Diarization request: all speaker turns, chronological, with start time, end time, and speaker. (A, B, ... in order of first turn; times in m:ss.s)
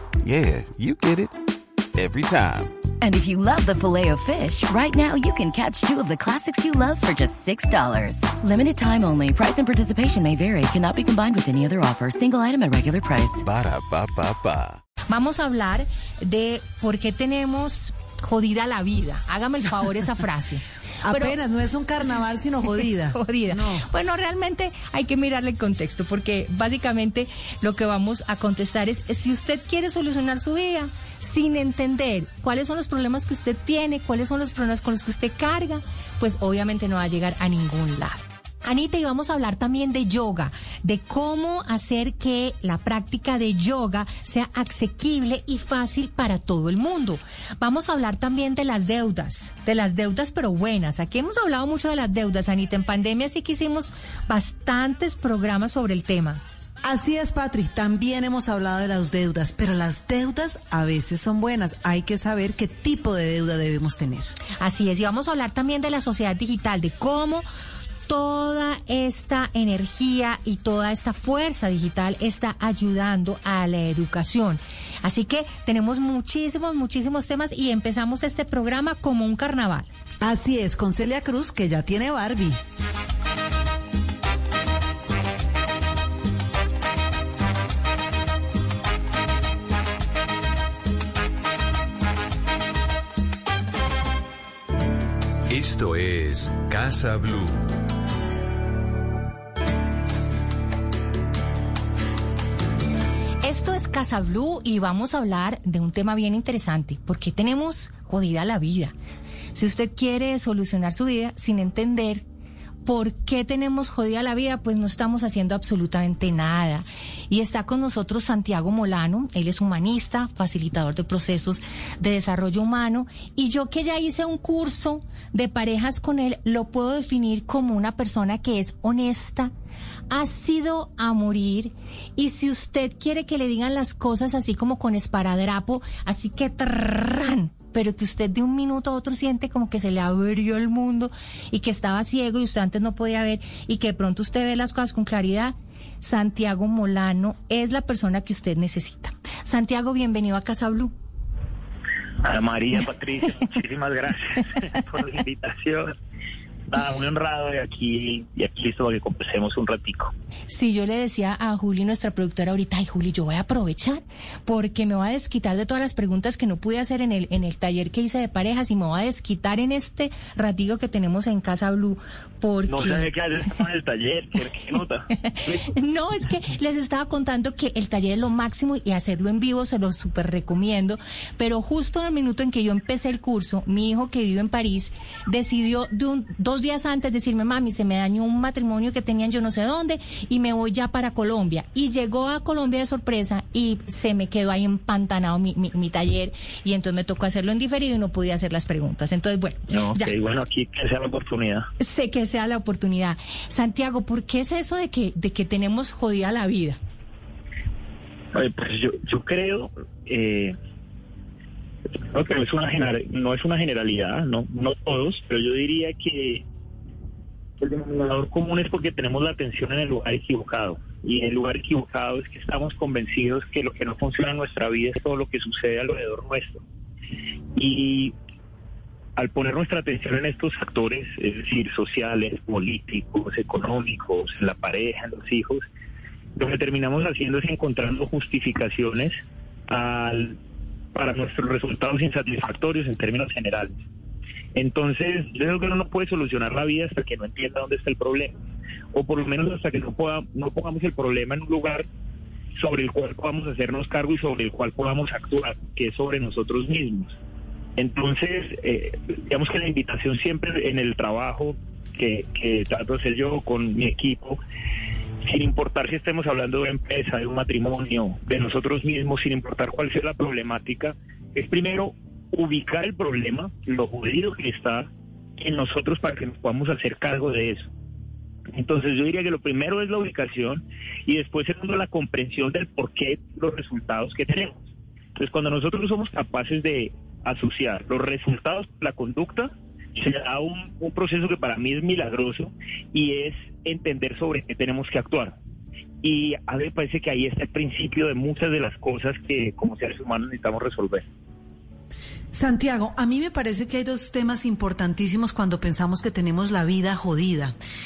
0:00.2-0:01.3 A
0:02.0-0:02.8 A
0:03.0-0:13.4 B
0:13.4-0:14.8 A
0:15.1-0:21.4 C
0:21.0-0:23.8 D
0:22.8-0:56.4 C
0:56.8-1:04.4 D
1:04.6-1:07.5 C
1:08.1-1:19.9 C
1:20.2-1:22.6 D
1:35.5-1:37.6 E
1:43.4-1:49.0 C
1:49.5-1:52.2 C
1:52.8-2:09.5 C
2:10.1-2:30.9 C
2:32.2-2:36.0 F
2:36.7-2:40.1 F
2:40.5-2:53.1 C
2:52.7-2:55.7 F
2:55.7-3:20.1 C
3:19.7-3:21.7 F
3:21.8-3:26.8 C
3:28.3-3:30.6 F
3:32.1-3:36.4 F
3:37.6-3:46.6 F
3:47.6-3:48.2 F
3:49.2-3:55.6 F
3:56.4-4:00.4 F
4:00.9-4:03.8 F
4:04.6-4:08.4 F
4:08.9-4:11.9 F
4:12.6-4:17.2 F
4:17.8-4:24.4 F
4:25.2-4:37.7 F
4:38.5-4:44.6 F
4:45.2-4:55.4 F
4:56.0-5:01.1 F
5:02.3-5:07.6 D